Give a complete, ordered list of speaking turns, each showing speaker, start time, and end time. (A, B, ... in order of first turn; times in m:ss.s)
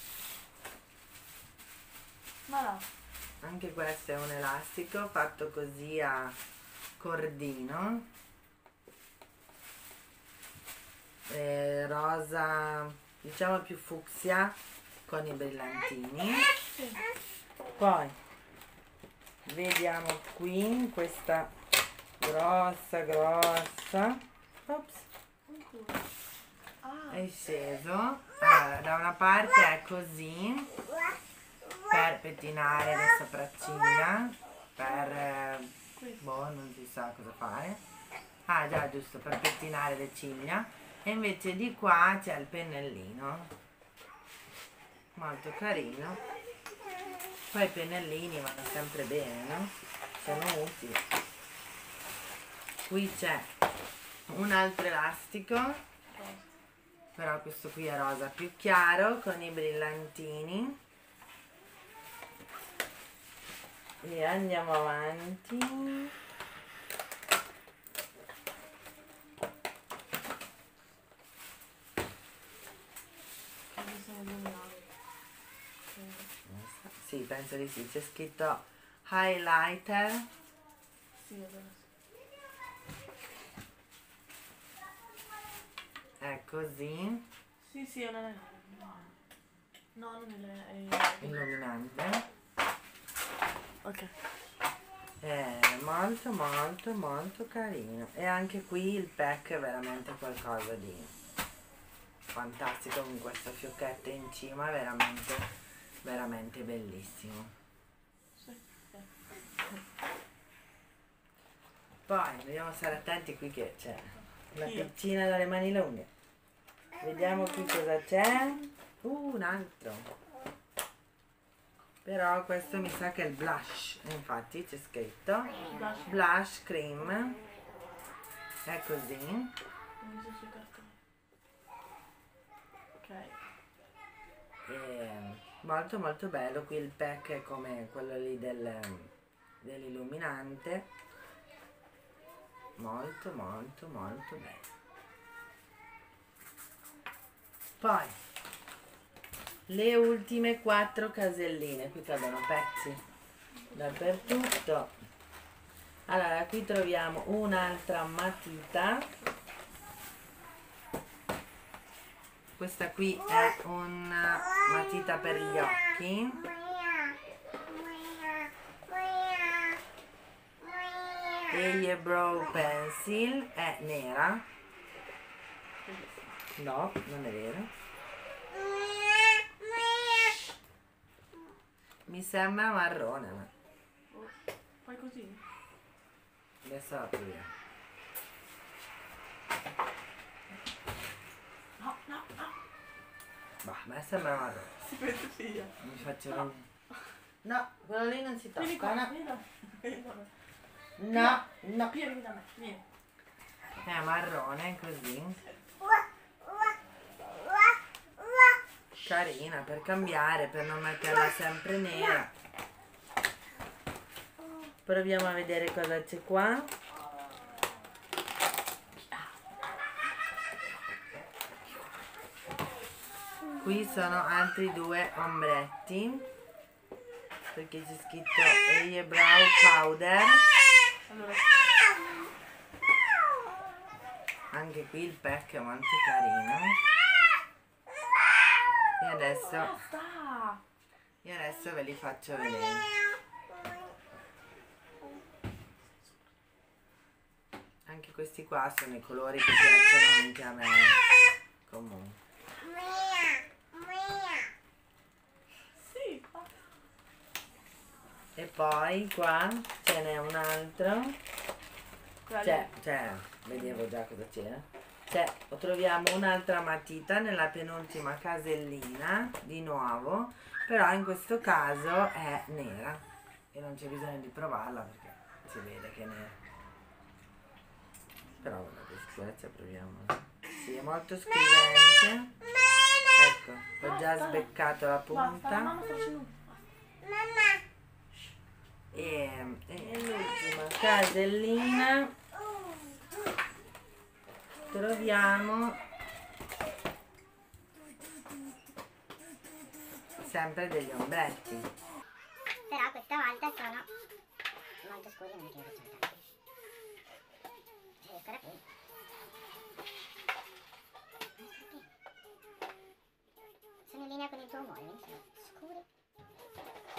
0:02.4-0:02.9 A
0:03.4-0:06.4 B
0:07.0-0:08.1 B
0:11.3-0:16.5 B
0:16.7-0:17.1 A
0:17.8-0:18.2 B
0:19.4-0:21.5 B
0:22.2-0:25.1 B
0:25.4-0:26.1 A
0:26.8-0:27.2 A
0:27.1-0:30.7 B
0:31.9-0:37.8 B
0:36.0-0:36.2 A
0:38.4-0:43.5 B
0:45.2-0:46.2 B
0:47.5-0:51.0 B
0:52.8-0:53.5 B
0:54.3-0:55.8 B
0:56.1-0:56.5 A
0:57.2-1:00.8 B
1:04.0-1:06.1 B
1:13.7-1:14.8 A
1:15.9-1:16.3 A
1:16.4-1:20.3 B
1:21.2-1:21.9 A
1:26.2-1:27.3 B
1:27.6-1:29.2 A
1:29.9-1:31.4 A
1:31.2-1:32.2 B
1:33.8-1:34.1 A
1:35.2-1:41.1 B
1:42.3-1:45.5 B
1:46.0-1:47.5 B
1:48.4-1:49.1 A
1:52.1-1:56.1 B
1:54.6-1:54.9 A
1:57.0-2:00.1 B
2:02.0-2:07.4 B
2:05.6-2:06.1 A
2:08.6-2:09.6 B
2:10.0-2:11.0 A
2:13.0-2:13.4 A
2:14.6-2:20.9 B
2:22.8-2:24.7 B
2:27.8-2:28.2 B
2:29.7-2:33.0 B
2:33.6-2:34.4 A
2:33.7-2:34.9 B
2:36.1-2:39.1 B
2:42.6-2:46.5 B
2:51.5-2:54.5 B
2:55.8-2:56.4 A
2:56.6-2:57.7 B
3:02.1-3:03.5 B
3:04.1-3:05.4 A
3:06.6-3:07.5 B
3:11.8-3:12.6 A
3:13.6-3:14.7 B
3:14.8-3:15.8 A
3:15.8-3:16.6 B
3:17.4-3:19.1 B
3:18.6-3:20.3 A
3:21.0-3:22.0 B
3:21.1-3:22.8 A
3:23.8-3:25.4 B
3:29.0-3:32.3 B
3:34.9-3:36.7 B
3:39.0-3:39.3 A
3:43.6-3:46.3 B
3:47.5-3:50.4 B
3:51.1-3:51.8 A
3:54.5-3:56.8 B
3:59.0-3:59.8 B
3:59.4-4:00.6 A
4:01.2-4:02.9 B
4:06.0-4:06.2 A
4:07.9-4:11.0 B
4:11.6-4:12.2 B
4:15.7-4:16.5 A
4:18.4-4:21.2 B
4:22.2-4:22.7 A
4:22.4-4:36.4 B
4:23.5-4:23.8 A
4:38.4-4:42.3 B
4:43.1-4:45.7 B
4:43.8-4:44.5 A
4:45.1-4:46.7 A
4:48.9-4:52.1 B
4:54.7-4:55.8 B
5:00.2-5:01.7 B
5:02.7-5:03.9 C
5:04.8-5:06.2 C
5:08.0-5:08.6 C
5:11.4-5:11.9 C
5:13.9-5:15.9 C